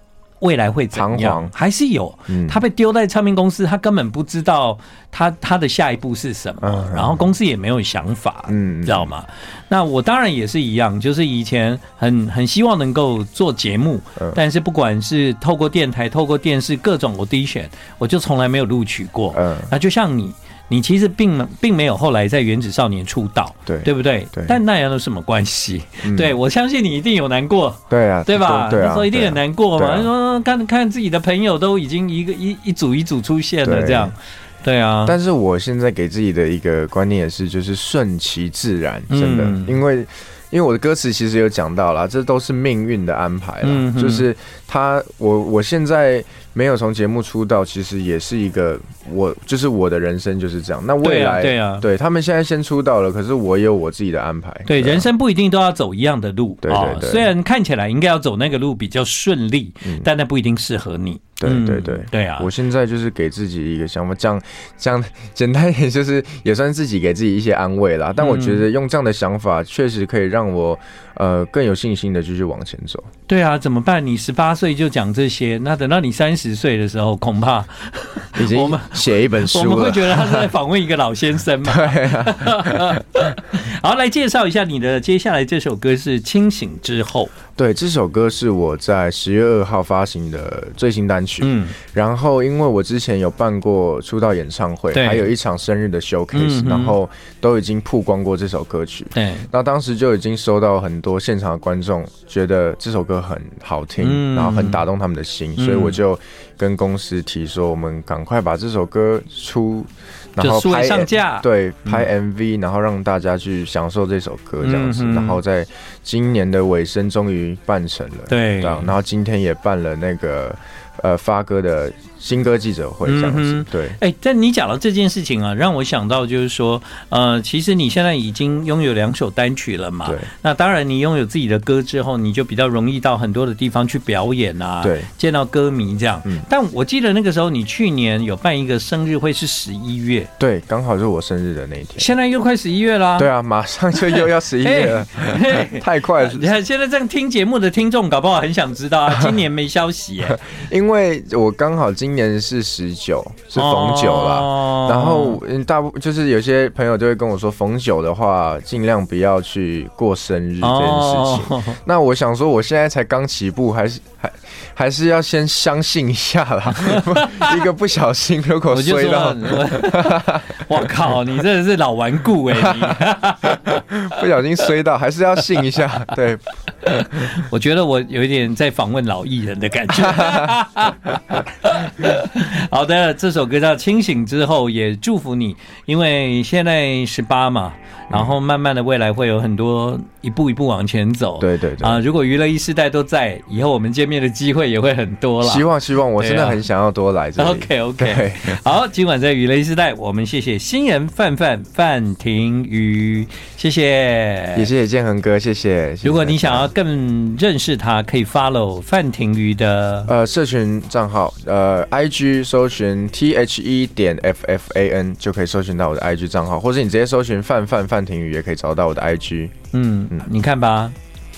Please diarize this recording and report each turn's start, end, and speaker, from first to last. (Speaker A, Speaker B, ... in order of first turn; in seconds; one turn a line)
Speaker A: 0.4-35.1
Speaker B: 0.9-1.5
Speaker B: 2.3-2.6
Speaker B: 6.6-7.3
Speaker B: 8.5-9.1
Speaker B: 19.3-19.7
Speaker B: 23.6-24.6
Speaker B: 26.0-26.3
Speaker B: 27.9-30.1
Speaker B: 33.6-34.1
Speaker B: 35.0-55.1
Speaker A: 39.1-39.8
Speaker A: 43.6-44.3
Speaker A: 51.0-51.9
Speaker A: 54.7-62.5
Speaker B: 56.6-57.3
Speaker B: 61.4-73.1
Speaker A: 68.2-68.7
Speaker A: 73.3-87.3
Speaker B: 78.3-80.5
Speaker B: 81.6-83.2
Speaker B: 87.5-124.0
Speaker A: 91.4-91.8
Speaker A: 94.9-95.3
Speaker A: 96.3-97.0
Speaker A: 99.1-99.5
Speaker A: 104.0-104.8
Speaker A: 105.6-106.0
Speaker A: 110.4-112.1
Speaker A: 114.6-115.4
Speaker A: 118.3-118.9
Speaker A: 123.0-140.3
Speaker B: 134.8-135.1
Speaker B: 140.4-142.1
Speaker A: 142.0-143.3
Speaker B: 143.2-146.5
Speaker A: 143.9-150.4
Speaker B: 150.3-170.9
Speaker A: 153.6-155.4
Speaker A: 160.6-161.8
Speaker A: 166.7-167.6
Speaker A: 168.7-173.8
Speaker B: 172.7-173.0
Speaker B: 173.6-177.3
Speaker A: 176.9-196.6
Speaker B: 180.0-180.5
Speaker B: 191.4-192.0
Speaker B: 195.4-198.6
Speaker A: 197.4-204.7
Speaker B: 204.5-206.7
Speaker A: 206.0-210.1
Speaker B: 210.1-219.5
Speaker A: 219.7-220.9